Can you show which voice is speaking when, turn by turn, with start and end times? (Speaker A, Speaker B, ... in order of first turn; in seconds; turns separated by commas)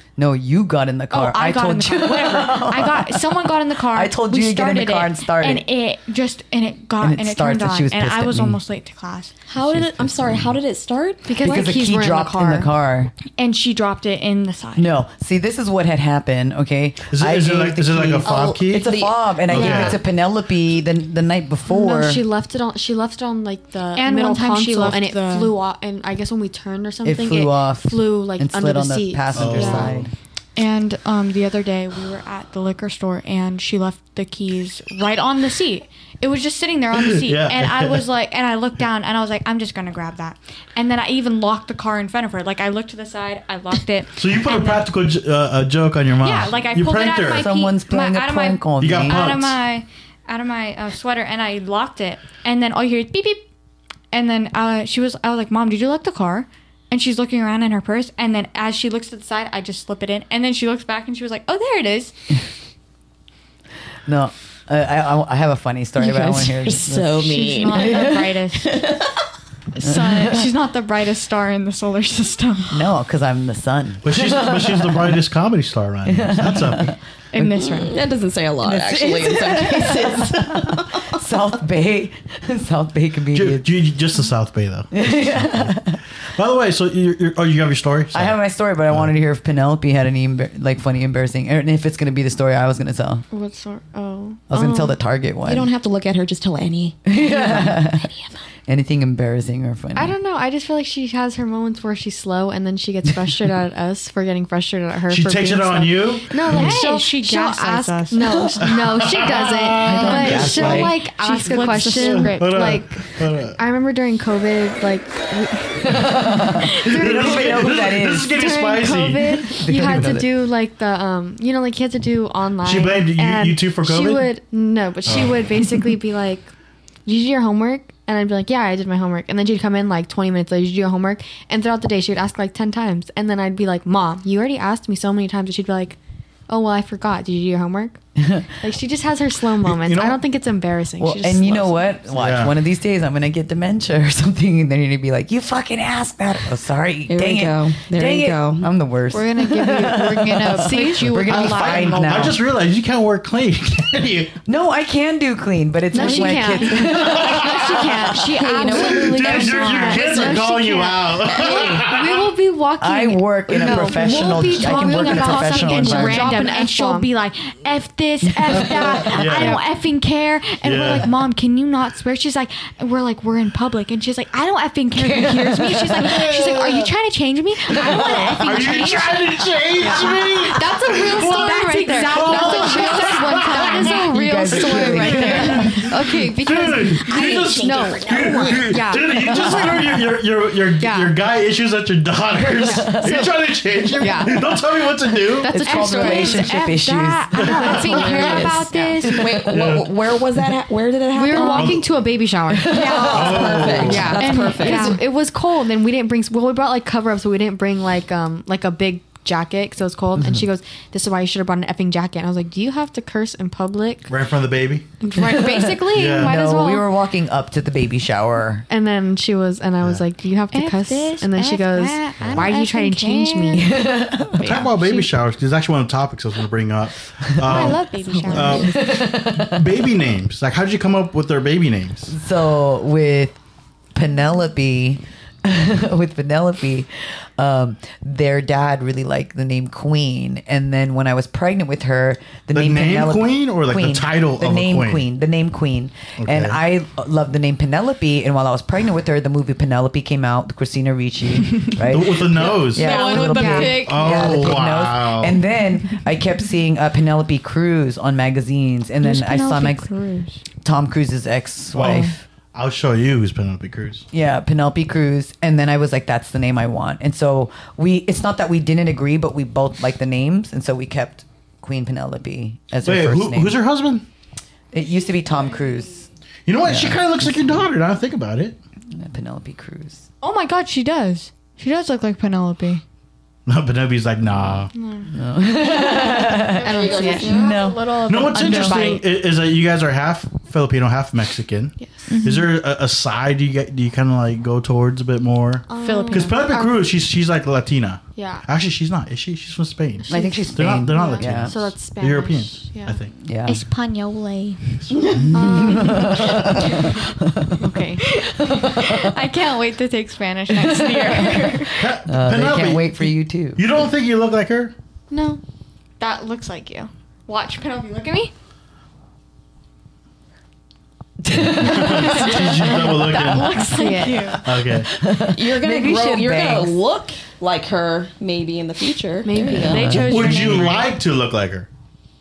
Speaker A: 0.2-5.7, Speaker B: 1.1-9.3, Speaker A: 7.0-8.6, Speaker C: 9.5-11.6, Speaker A: 9.6-10.6, Speaker D: 11.3-12.7, Speaker A: 11.4-13.1, Speaker B: 13.4-14.9, Speaker A: 14.8-22.2, Speaker E: 17.1-20.0, Speaker C: 18.2-20.0, Speaker D: 19.6-19.9, Speaker D: 21.7-29.9, Speaker B: 23.9-25.6, Speaker A: 27.1-30.1, Speaker E: 29.3-30.1, Speaker B: 30.6-44.9, Speaker E: 36.9-38.0, Speaker E: 44.1-47.5, Speaker B: 46.2-53.5, Speaker A: 47.3-49.3, Speaker E: 48.8-49.6, Speaker B: 54.1-62.1, Speaker A: 64.1-68.3, Speaker C: 66.0-68.1, Speaker B: 67.2-68.8, Speaker C: 68.6-69.2, Speaker B: 69.7-72.8, Speaker A: 69.8-70.5, Speaker A: 72.7-75.2, Speaker E: 74.0-77.0, Speaker A: 76.1-77.5, Speaker B: 77.3-77.9, Speaker C: 77.6-81.1, Speaker A: 78.6-83.7, Speaker E: 83.3-85.8, Speaker A: 84.9-86.0, Speaker E: 86.4-88.4, Speaker A: 88.1-93.2, Speaker D: 93.3-94.8, Speaker A: 94.5-95.7, Speaker C: 94.6-94.9, Speaker C: 95.4-98.4, Speaker A: 97.1-98.0, Speaker A: 98.7-100.1, Speaker D: 100.0-116.2, Speaker E: 105.1-106.9, Speaker B: 106.5-108.3, Speaker E: 108.6-110.9, Speaker A: 109.8-111.0, Speaker B: 109.9-112.6, Speaker E: 111.5-113.6, Speaker A: 115.8-118.5, Speaker D: 116.8-126.5, Speaker E: 116.9-120.2, Speaker A: 119.4-120.3, Speaker E: 122.6-124.3, Speaker E: 125.1-125.4, Speaker D: 127.1-138.0, Speaker A: 138.2-138.5, Speaker D: 138.6-142.0, Speaker E: 139.6-140.2, Speaker A: 141.0-152.4, Speaker E: 142.1-142.6, Speaker C: 147.1-148.7, Speaker B: 149.1-152.4, Speaker D: 150.5-151.2, Speaker E: 151.2-154.4, Speaker A: 154.4-158.2, Speaker D: 155.9-162.9, Speaker B: 155.9-160.8, Speaker E: 157.0-157.7, Speaker C: 158.2-160.4, Speaker E: 158.7-162.3, Speaker B: 161.4-185.9, Speaker A: 162.8-166.4, Speaker C: 163.5-163.9, Speaker D: 163.6-167.1, Speaker A: 168.3-169.2, Speaker E: 169.0-169.6, Speaker E: 170.6-171.2, Speaker A: 174.9-176.3, Speaker E: 176.1-176.9, Speaker E: 177.7-184.0, Speaker D: 179.8-189.8, Speaker A: 184.0-185.9, Speaker E: 184.5-195.6, Speaker C: 187.1-188.7, Speaker A: 189.0-190.0, Speaker D: 190.8-191.2, Speaker D: 192.6-193.2, Speaker A: 192.6-193.3, Speaker D: 193.9-196.6, Speaker A: 195.5-197.5, Speaker B: 195.6-199.3, Speaker E: 197.3-198.4, Speaker D: 197.4-198.5, Speaker C: 197.5-201.8, Speaker A: 199.2-199.7, Speaker E: 199.4-199.9, Speaker D: 201.1-214.1, Speaker B: 201.3-201.8, Speaker E: 201.5-202.0, Speaker A: 202.5-203.3, Speaker C: 202.7-205.0, Speaker B: 202.7-205.0, Speaker E: 203.1-204.2, Speaker A: 210.2-210.4, Speaker E: 214.1-214.9, Speaker D: 215.0-216.9, Speaker A: 215.2-218.7, Speaker E: 215.9-216.4, Speaker D: 218.7-223.9, Speaker B: 220.5-223.8, Speaker E: 222.2-222.5, Speaker A: 223.6-224.5, Speaker B: 224.4-225.0, Speaker D: 224.4-225.0, Speaker E: 224.4-232.2, Speaker A: 227.4-227.7, Speaker B: 227.4-228.7, Speaker C: 228.0-228.9, Speaker A: 228.7-229.9, Speaker A: 232.1-233.4, Speaker A: 233.9-259.9, Speaker E: 242.5-245.1, Speaker E: 246.2-246.6, Speaker E: 251.9-252.9, Speaker B: 252.5-254.5, Speaker D: 252.7-254.1, Speaker E: 253.7-255.4, Speaker B: 259.0-260.4, Speaker A: 260.6-262.2, Speaker E: 261.7-264.1, Speaker A: 264.1-273.6, Speaker E: 272.9-274.0, Speaker A: 274.7-276.1, Speaker E: 276.5-278.6, Speaker A: 276.6-277.3, Speaker A: 278.9-280.1, Speaker B: 280.2-282.8, Speaker E: 283.5-284.7, Speaker D: 284.8-285.1, Speaker A: 285.1-288.9, Speaker D: 286.6-289.0, Speaker C: 286.6-287.6, Speaker B: 286.9-287.3, Speaker E: 288.0-303.1, Speaker B: 288.3-289.0, Speaker D: 291.8-292.1, Speaker B: 292.1-292.5, Speaker D: 295.7-297.0, Speaker B: 295.8-296.4, Speaker D: 298.2-298.5, Speaker A: 300.1-301.6, Speaker D: 300.9-303.0, Speaker A: 303.2-303.6, Speaker B: 303.5-306.1, Speaker E: 304.8-305.6, Speaker A: 305.2-307.7, Speaker D: 305.3-306.8, Speaker D: 307.6-308.0, Speaker B: 308.0-311.9, Speaker A: 308.4-309.3, Speaker A: 310.5-313.6, Speaker E: 311.8-314.7, Speaker D: 315.1-315.4, Speaker B: 316.0-318.3, Speaker A: 321.2-322.8, Speaker E: 321.4-323.7, Speaker B: 321.7-324.4, Speaker D: 323.6-324.5, Speaker E: 324.4-324.9, Speaker A: 324.9-326.8, Speaker C: 325.3-329.9, Speaker D: 329.2-330.1, Speaker B: 329.5-330.9, Speaker A: 329.6-330.8, Speaker E: 330.0-331.7